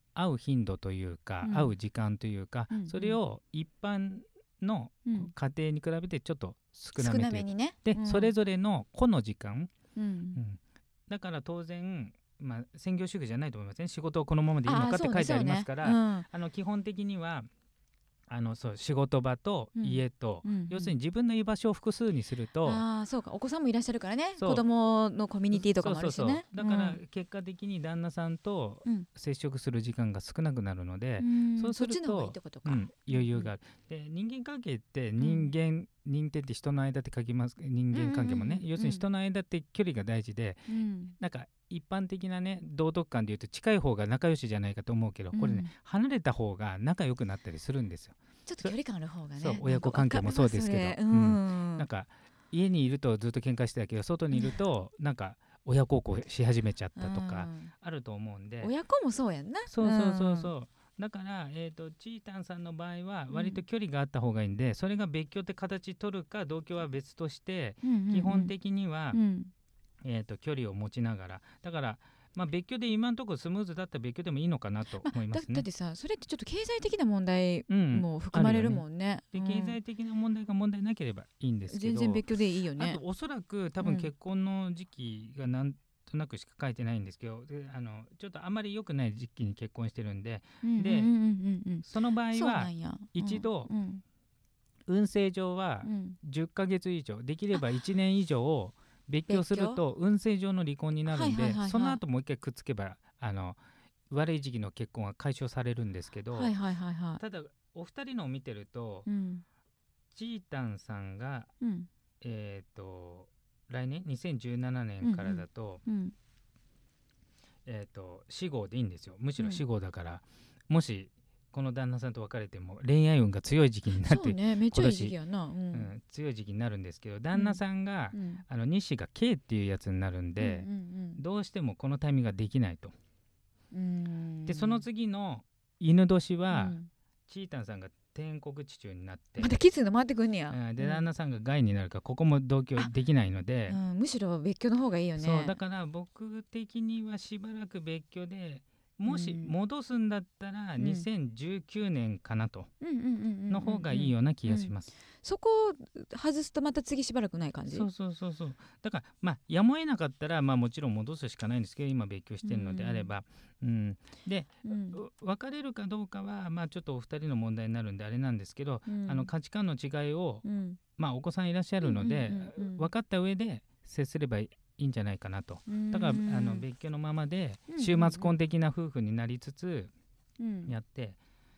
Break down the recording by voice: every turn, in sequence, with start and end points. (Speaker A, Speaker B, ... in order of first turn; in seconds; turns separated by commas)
Speaker A: 0.1-9.7, Speaker B: 1.4-1.7, Speaker B: 2.7-3.2, Speaker B: 5.0-5.3, Speaker B: 7.0-8.3, Speaker B: 9.9-10.4, Speaker A: 10.3-17.5, Speaker B: 14.6-16.3, Speaker A: 18.3-22.8, Speaker B: 19.8-20.9, Speaker B: 22.6-27.0, Speaker A: 24.4-24.6, Speaker A: 25.5-48.7, Speaker B: 31.2-33.5, Speaker B: 35.2-35.5, Speaker B: 37.9-39.0, Speaker B: 40.7-41.1, Speaker B: 45.3-45.7, Speaker B: 48.5-51.9, Speaker A: 49.4-58.7, Speaker B: 57.0-57.7, Speaker B: 58.6-60.5, Speaker A: 59.7-69.2, Speaker B: 63.3-63.6, Speaker B: 67.8-68.5, Speaker B: 69.1-69.5, Speaker A: 70.0-75.7, Speaker B: 75.0-79.8, Speaker A: 77.7-91.1, Speaker B: 81.7-83.0, Speaker B: 83.8-84.1, Speaker B: 90.6-94.0, Speaker A: 91.8-93.7, Speaker A: 94.9-103.6, Speaker B: 95.8-96.2, Speaker B: 99.3-99.8, Speaker B: 101.1-102.0, Speaker A: 104.1-106.5, Speaker B: 106.3-107.2, Speaker A: 107.2-109.1, Speaker B: 109.0-109.4, Speaker A: 110.1-111.5, Speaker B: 111.6-111.9, Speaker A: 112.2-115.8, Speaker B: 115.0-116.1, Speaker A: 117.7-125.1, Speaker B: 124.0-125.9, Speaker A: 125.7-132.9, Speaker B: 127.3-127.6, Speaker B: 128.1-128.4, Speaker B: 130.4-131.2, Speaker B: 133.7-134.8, Speaker A: 134.5-136.8, Speaker B: 136.5-136.9, Speaker A: 137.3-139.6, Speaker B: 139.4-141.0, Speaker A: 140.5-143.8, Speaker B: 143.7-145.6, Speaker A: 145.2-152.7, Speaker B: 149.1-149.5, Speaker B: 150.8-151.0, Speaker B: 152.8-154.7, Speaker A: 153.5-154.9, Speaker B: 155.2-157.9, Speaker A: 157.7-170.4, Speaker B: 162.4-163.1, Speaker B: 164.6-165.0, Speaker B: 168.8-169.3, Speaker B: 170.4-170.8, Speaker A: 171.0-179.9, Speaker B: 171.8-172.9, Speaker B: 175.7-176.7, Speaker B: 177.7-178.3, Speaker B: 180.4-180.7, Speaker A: 180.7-181.2